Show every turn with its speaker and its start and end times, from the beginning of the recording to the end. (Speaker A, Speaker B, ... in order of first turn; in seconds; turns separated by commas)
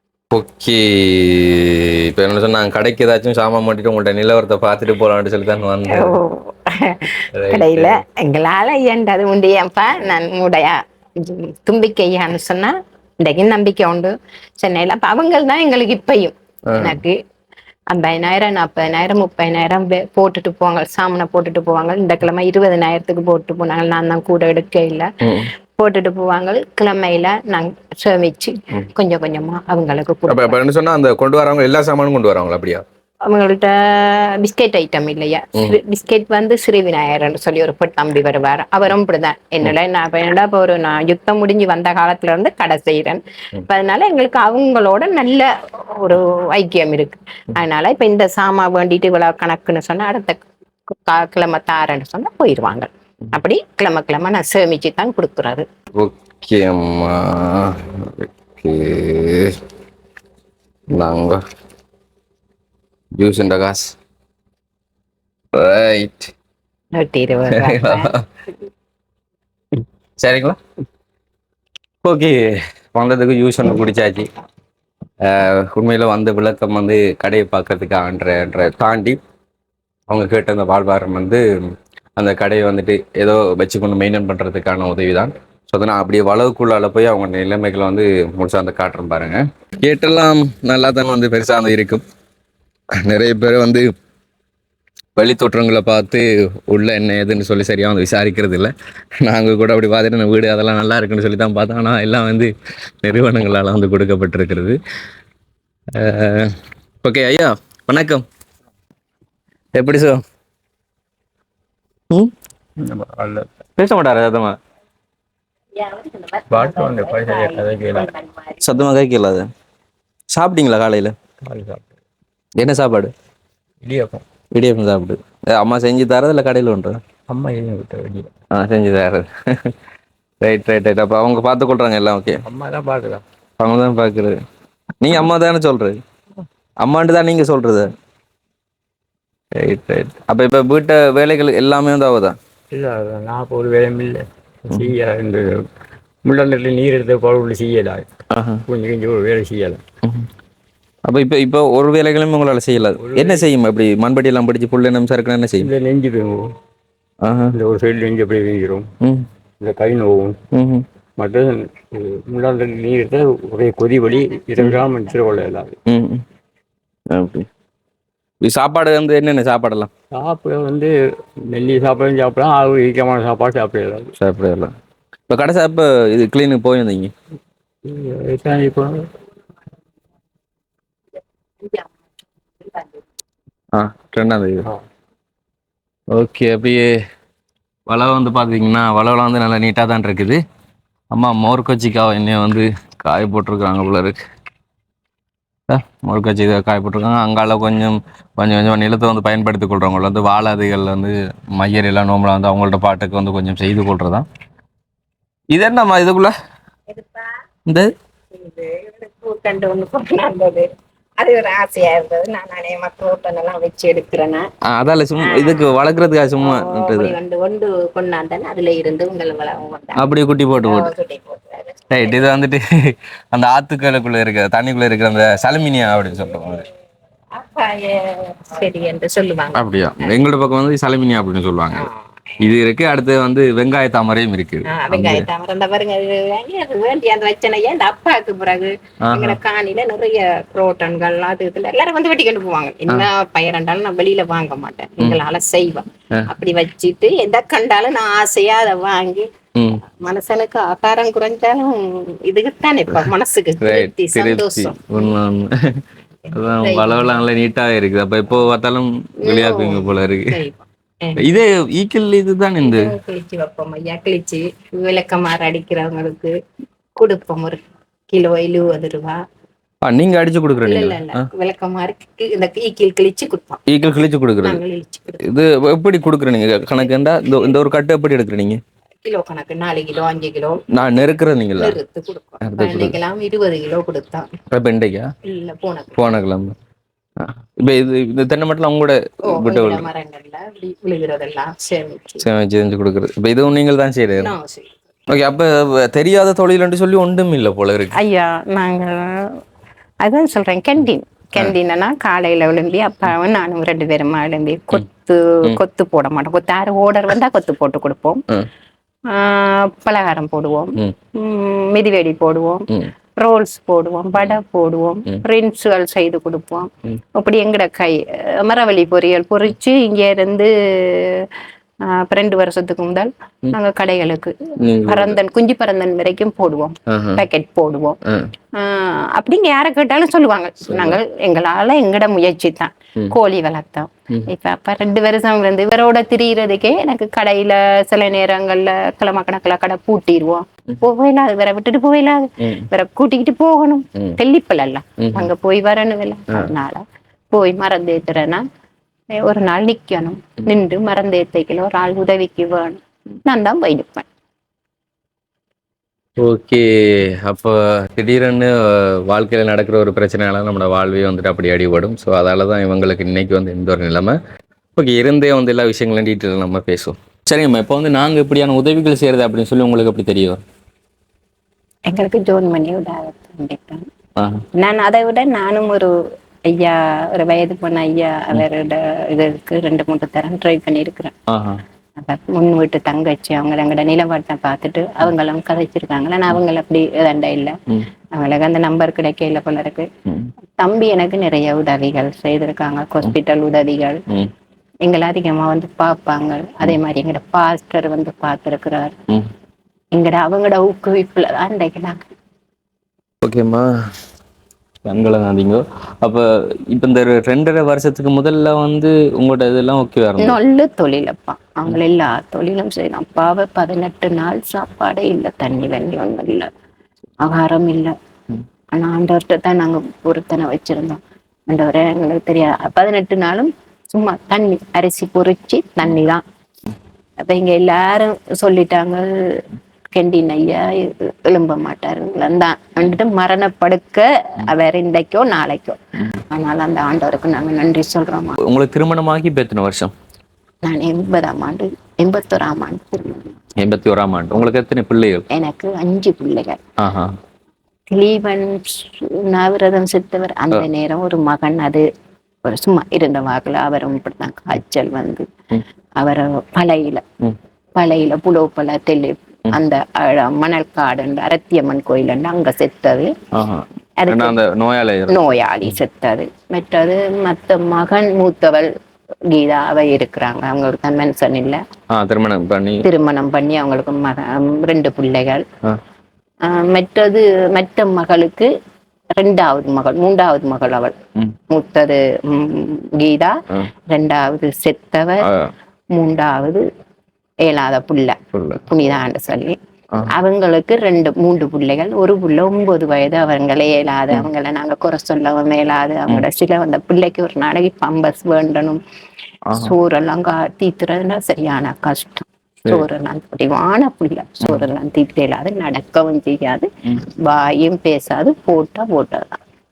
Speaker A: 0.3-6.2, Speaker B: 5.9-17.2, Speaker A: 7.3-8.0, Speaker A: 16.7-17.0, Speaker B: 17.9-30.6, Speaker A: 25.2-25.5, Speaker A: 30.3-32.8, Speaker B: 33.2-55.7, Speaker A: 56.0-59.6, Speaker A: 60.9-61.4, Speaker A: 63.1-64.0, Speaker A: 65.5-66.3, Speaker B: 66.9-68.1, Speaker A: 67.5-68.2, Speaker A: 70.2-70.6, Speaker A: 72.0-74.3, Speaker A: 75.2-79.2, Speaker A: 80.1-92.0, Speaker A: 92.9-93.9, Speaker A: 95.2-104.8, Speaker A: 105.9-108.2, Speaker A: 109.8-110.2, Speaker C: 112.8-113.5, Speaker A: 113.8-114.6, Speaker B: 115.8-118.9, Speaker C: 116.5-118.1, Speaker A: 118.6-119.5, Speaker A: 120.3-121.2, Speaker C: 121.4-121.9, Speaker A: 122.6-123.1, Speaker C: 123.8-124.2, Speaker A: 124.5-127.0, Speaker C: 127.3-128.3, Speaker A: 128.5-129.8, Speaker A: 130.4-132.4, Speaker C: 132.5-133.2, Speaker A: 133.6-134.4, Speaker A: 135.0-136.0, Speaker A: 136.8-137.9, Speaker A: 139.5-142.4, Speaker C: 142.7-145.7, Speaker C: 146.2-148.1, Speaker A: 148.3-148.6, Speaker C: 148.7-149.8, Speaker A: 151.1-155.7, Speaker C: 153.0-153.5, Speaker C: 155.6-156.5, Speaker A: 157.2-157.6, Speaker C: 157.5-158.9, Speaker A: 159.0-159.3, Speaker C: 159.6-160.4, Speaker A: 160.5-160.8, Speaker C: 161.2-165.8, Speaker A: 165.9-166.2, Speaker A: 167.1-167.5, Speaker A: 168.4-169.9, Speaker C: 170.1-174.1, Speaker A: 174.2-174.8, Speaker A: 175.3-177.1, Speaker C: 177.8-179.1, Speaker B: 181.6-181.9, Speaker A: 183.7-184.7, Speaker A: 186.1-187.0, Speaker A: 187.9-190.4, Speaker A: 191.1-194.2, Speaker A: 195.7-204.3, Speaker A: 205.5-206.3, Speaker B: 206.9-207.4, Speaker A: 207.7-207.9, Speaker B: 208.3-214.5, Speaker A: 214.6-217.2, Speaker B: 215.2-215.8, Speaker B: 216.4-222.3, Speaker A: 220.0-220.9, Speaker A: 221.9-226.7, Speaker B: 227.3-230.2, Speaker A: 229.5-231.9, Speaker A: 232.4-235.3, Speaker B: 234.7-249.3, Speaker A: 239.0-239.4, Speaker A: 249.6-249.8, Speaker B: 249.8-255.1, Speaker A: 253.6-260.4, Speaker B: 256.2-257.2, Speaker B: 259.2-261.3, Speaker A: 261.2-262.9, Speaker B: 262.6-266.4, Speaker B: 267.0-269.2, Speaker A: 269.8-271.3, Speaker B: 270.6-273.6, Speaker A: 273.7-274.6, Speaker B: 274.4-275.3, Speaker A: 275.2-278.6, Speaker B: 279.0-280.6, Speaker A: 280.7-281.8, Speaker B: 281.6-284.3, Speaker A: 282.4-283.0, Speaker A: 284.5-285.1, Speaker B: 285.2-286.0, Speaker A: 286.0-286.6, Speaker A: 287.2-289.9, Speaker B: 289.2-292.2, Speaker A: 292.2-294.3, Speaker B: 294.2-294.8, Speaker A: 295.1-298.0, Speaker B: 297.9-299.4, Speaker B: 300.0-308.2, Speaker B: 309.1-328.0, Speaker A: 324.6-325.2, Speaker A: 326.9-327.2, Speaker A: 328.1-328.3, Speaker B: 328.5-348.4, Speaker A: 330.6-331.0, Speaker A: 342.4-342.7, Speaker A: 345.0-345.3, Speaker B: 349.1-354.1, Speaker A: 356.2-364.2, Speaker A: 364.8-370.4, Speaker B: 371.9-373.9, Speaker A: 374.2-374.4, Speaker B: 374.5-381.1, Speaker A: 381.3-381.6, Speaker B: 382.0-387.6, Speaker B: 388.1-389.9, Speaker A: 390.1-390.3, Speaker B: 390.6-394.0, Speaker B: 394.8-398.9, Speaker B: 399.9-402.1, Speaker A: 403.2-403.7, Speaker A: 404.9-410.4, Speaker B: 410.2-416.5, Speaker B: 417.2-417.9, Speaker B: 418.7-426.2, Speaker B: 427.2-435.8, Speaker B: 436.3-438.4, Speaker A: 438.4-439.9, Speaker B: 440.6-443.4, Speaker A: 443.6-445.3, Speaker B: 445.3-446.6, Speaker A: 446.8-447.2, Speaker B: 447.9-451.9, Speaker B: 452.4-455.3, Speaker B: 456.0-457.0, Speaker B: 457.8-463.1, Speaker A: 463.3-465.2, Speaker B: 464.0-464.4, Speaker B: 465.1-468.7, Speaker B: 469.3-471.6, Speaker A: 471.9-472.9, Speaker B: 472.8-475.5, Speaker B: 476.4-478.5, Speaker B: 479.1-481.0, Speaker B: 481.5-485.3, Speaker A: 485.2-485.5, Speaker B: 485.9-486.7, Speaker B: 487.4-489.6, Speaker A: 488.3-488.6, Speaker B: 490.1-498.8, Speaker A: 499.5-499.7, Speaker B: 499.6-509.4